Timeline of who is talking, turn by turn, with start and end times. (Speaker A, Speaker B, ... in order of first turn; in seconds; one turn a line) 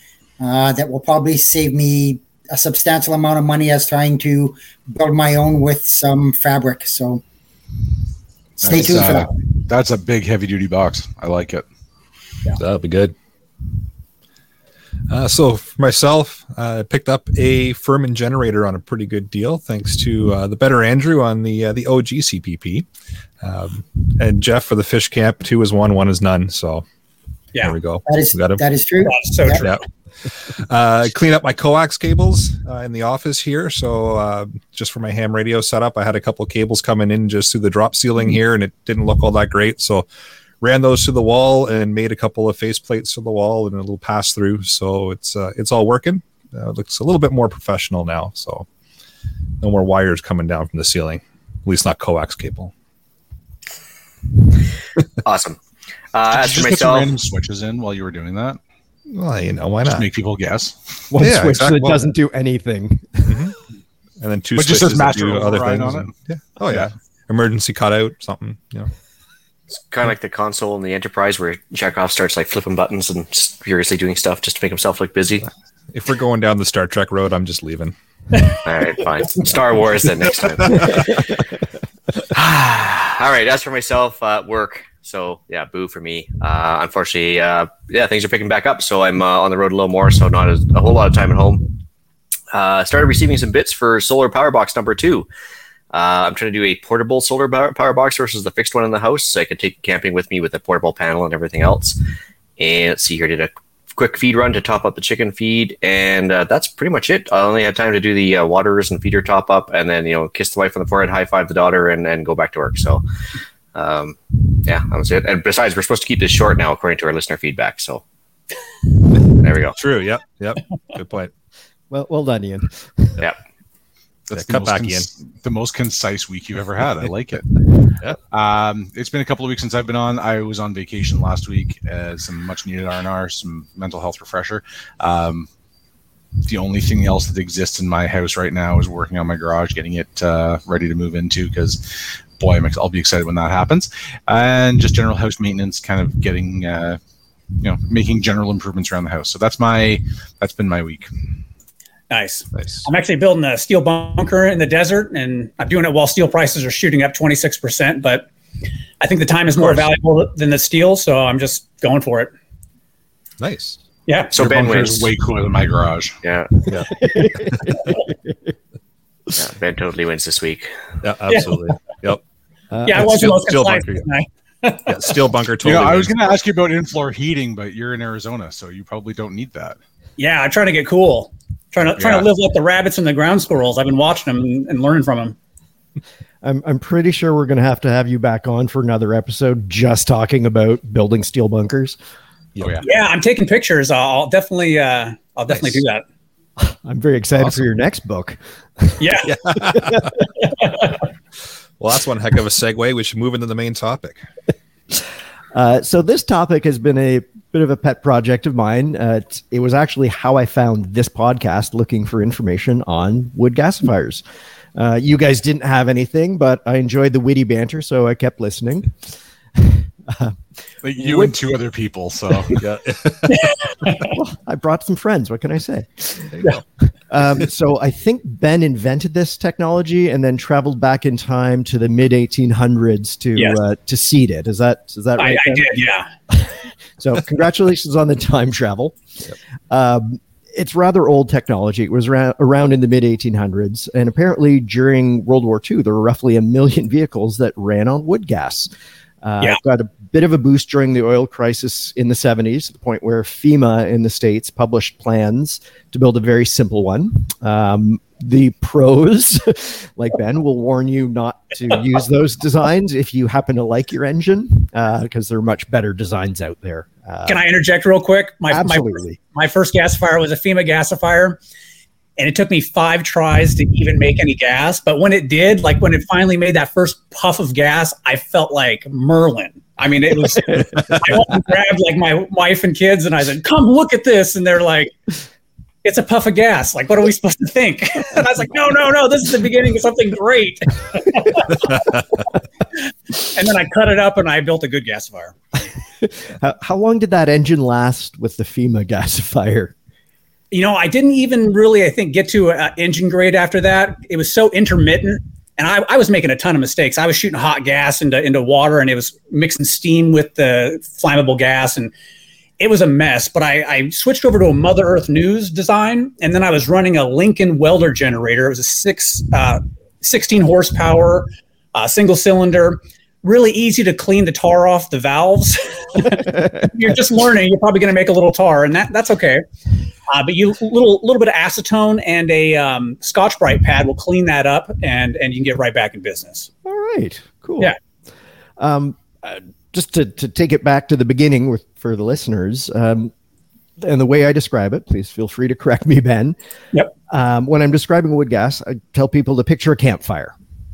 Speaker A: 0.4-7.2
Speaker B: 8.6-11.7
Speaker A: 8.6-9.3
Speaker C: 12.6-13.2
Speaker C: 15.1-22.9
Speaker C: 23.4-26.9
Speaker C: 27.6-28.6
Speaker A: 28.1-29.6
Speaker D: 29.1-29.8
Speaker C: 29.6-40.1
Speaker C: 40.6-48.7
Speaker C: 49.6-52.7
Speaker E: 55.2-55.6
Speaker E: 56.1-57.1
Speaker B: 56.3-58.6
Speaker C: 59.1-60.1
Speaker B: 59.8-61.0
Speaker F: 61.1-63.5
Speaker C: 61.2-62.0
Speaker C: 63.3-63.5
Speaker C: 64.2-68.9
Speaker B: 64.5-66.2
Speaker E: 69.8-75.5
Speaker C: 75.9-78.0
Speaker E: 78.6-81.1
Speaker C: 80.6-81.1
Speaker E: 82.3-91.8
Speaker E: 92.5-95.3
Speaker E: 95.9-102.0
Speaker E: 102.6-113.0
Speaker E: 113.7-118.0
Speaker E: 119.4-119.8
Speaker C: 119.8-121.3
Speaker F: 121.9-123.2
Speaker B: 124.3-127.6
Speaker C: 124.3-125.1
Speaker B: 128.3-135.5
Speaker B: 136.5-147.0
Speaker B: 147.6-151.1
Speaker D: 152.1-158.3
Speaker D: 159.0-162.3
Speaker C: 163.4-163.8
Speaker D: 164.1-164.3
Speaker B: 164.3-166.2
Speaker E: 164.3-165.1
Speaker E: 166.2-166.7
Speaker C: 166.7-167.6
Speaker F: 166.9-168.5
Speaker E: 169.4-170.7
Speaker C: 171.0-172.2
Speaker D: 171.3-171.6
Speaker F: 172.7-173.1
Speaker D: 172.8-175.1
Speaker C: 172.9-174.1
Speaker C: 174.9-176.2
Speaker B: 175.6-179.8
Speaker D: 180.2-185.4
Speaker B: 182.0-182.3
Speaker F: 186.4-192.0
Speaker B: 192.6-192.9
Speaker D: 192.8-196.0
Speaker F: 196.6-200.1
Speaker D: 199.0-199.3
Speaker C: 199.3-200.1
Speaker D: 200.6-200.9
Speaker C: 201.8-204.2
Speaker F: 205.5-214.2
Speaker F: 214.8-220.4
Speaker B: 220.8-222.6
Speaker F: 221.0-221.3
Speaker C: 222.6-223.5
Speaker D: 223.3-224.1
Speaker F: 224.1-226.3
Speaker F: 226.9-235.7
Speaker D: 235.2-236.1
Speaker F: 236.3-248.7
Speaker F: 249.2-267.4
Speaker D: 267.3-271.4
Speaker F: 268.5-269.2
Speaker D: 272.2-284.9
Speaker D: 285.8-292.0
Speaker D: 293.2-295.4
Speaker F: 296.0-299.7
Speaker D: 300.5-311.9
Speaker D: 312.6-329.4
Speaker D: 330.1-336.5
Speaker F: 336.6-337.7
Speaker F: 338.6-343.1
Speaker F: 343.8-346.4
Speaker F: 347.1-350.4